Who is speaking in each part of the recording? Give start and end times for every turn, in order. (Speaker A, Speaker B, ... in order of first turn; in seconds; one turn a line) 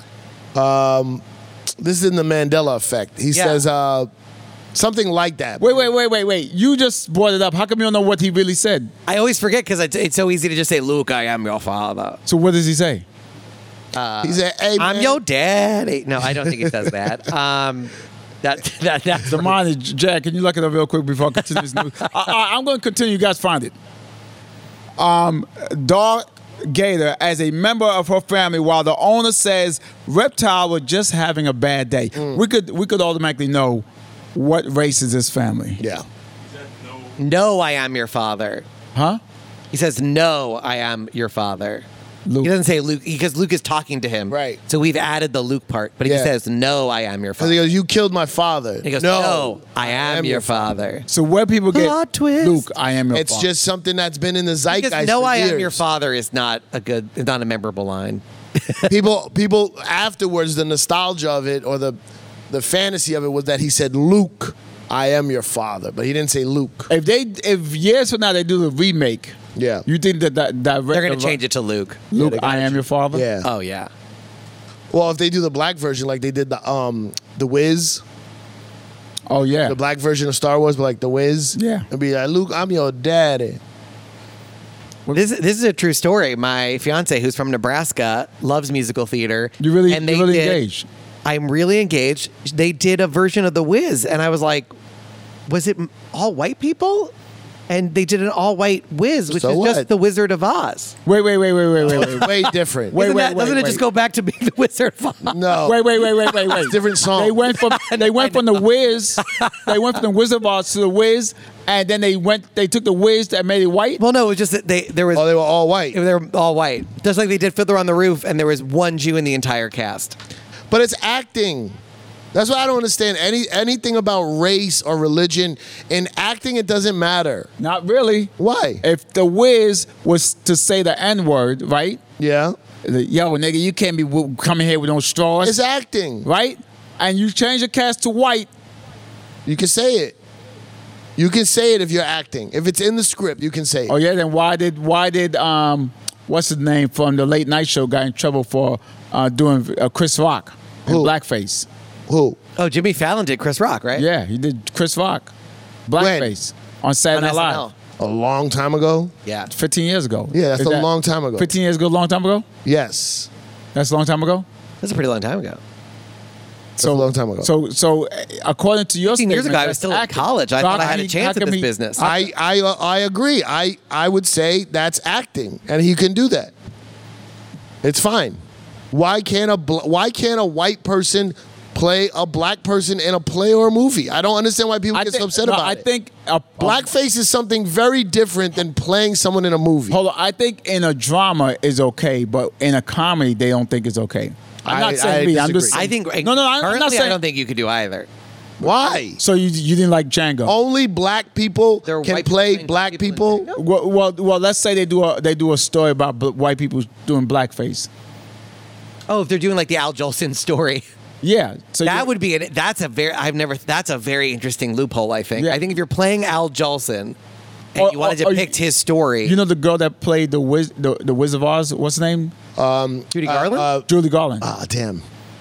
Speaker A: 0.5-1.2
Speaker A: 1.8-4.1
Speaker B: 3.3-3.6
Speaker A: 4.7-5.7
Speaker C: 5.6-8.9
Speaker B: 9.1-12.2
Speaker C: 12.2-13.0
Speaker B: 13.9-19.5
Speaker A: 14.2-15.2
Speaker C: 19.3-23.7
Speaker B: 21.4-22.1
Speaker C: 25.0-35.8
Speaker A: 35.8-36.0
Speaker B: 37.1-38.7
Speaker C: 38.9-39.2
Speaker B: 39.7-41.9
Speaker C: 42.2-42.5
Speaker B: 42.4-47.6
Speaker A: 44.3-44.6
Speaker A: 46.0-46.3
Speaker A: 47.4-50.7
Speaker B: 48.8-51.1
Speaker C: 51.1-53.5
Speaker B: 51.7-52.6
Speaker A: 53.1-55.8
Speaker B: 54.7-58.9
Speaker A: 58.9-62.0
Speaker A: 62.5-66.9
Speaker C: 66.9-71.4
Speaker A: 69.5-69.8
Speaker B: 70.9-72.8
Speaker C: 72.1-73.2
Speaker A: 73.1-73.5
Speaker B: 73.4-73.9
Speaker A: 74.9-78.0
Speaker C: 79.3-79.8
Speaker A: 79.7-83.6
Speaker C: 81.5-81.9
Speaker B: 85.1-90.6
Speaker C: 89.6-90.9
Speaker B: 91.2-94.7
Speaker B: 95.5-97.1
Speaker B: 97.7-100.9
Speaker A: 99.3-99.8
Speaker C: 101.0-103.8
Speaker A: 101.8-103.0
Speaker B: 101.9-102.2
Speaker B: 102.9-106.6
Speaker A: 105.3-105.8
Speaker C: 105.6-114.0
Speaker A: 106.5-107.4
Speaker B: 107.4-108.6
Speaker B: 109.2-109.7
Speaker B: 114.0-115.3
Speaker A: 115.1-116.0
Speaker B: 115.9-120.2
Speaker A: 120.7-121.8
Speaker A: 122.3-127.5
Speaker C: 127.6-132.0
Speaker A: 128.4-128.8
Speaker A: 132.2-132.6
Speaker C: 132.8-135.6
Speaker A: 135.4-136.3
Speaker C: 136.2-138.5
Speaker A: 139.4-140.2
Speaker A: 141.2-143.9
Speaker C: 143.9-151.7
Speaker A: 150.9-151.1
Speaker A: 152.1-152.4
Speaker B: 152.6-154.1
Speaker C: 153.9-155.3
Speaker C: 155.9-157.6
Speaker A: 156.0-156.3
Speaker B: 157.1-157.7
Speaker A: 158.0-159.1
Speaker B: 159.2-159.5
Speaker C: 159.5-162.4
Speaker A: 160.3-161.5
Speaker A: 162.6-163.3
Speaker C: 163.7-164.4
Speaker B: 164.8-165.6
Speaker C: 166.8-172.2
Speaker A: 166.8-167.5
Speaker B: 169.1-172.1
Speaker A: 172.0-176.5
Speaker A: 177.8-178.4
Speaker A: 178.9-185.8
Speaker C: 184.9-186.9
Speaker A: 186.6-190.0
Speaker C: 189.9-197.2
Speaker A: 194.7-195.8
Speaker B: 195.7-198.1
Speaker A: 198.6-199.2
Speaker C: 199.2-200.6
Speaker A: 200.4-203.5
Speaker B: 201.8-203.6
Speaker C: 203.5-207.9
Speaker B: 209.1-210.8
Speaker C: 211.2-212.1
Speaker B: 211.8-217.2
Speaker B: 217.7-219.3
Speaker C: 217.8-218.6
Speaker C: 219.2-222.3
Speaker A: 222.6-223.9
Speaker B: 223.1-223.7
Speaker C: 223.9-224.4
Speaker A: 224.4-225.0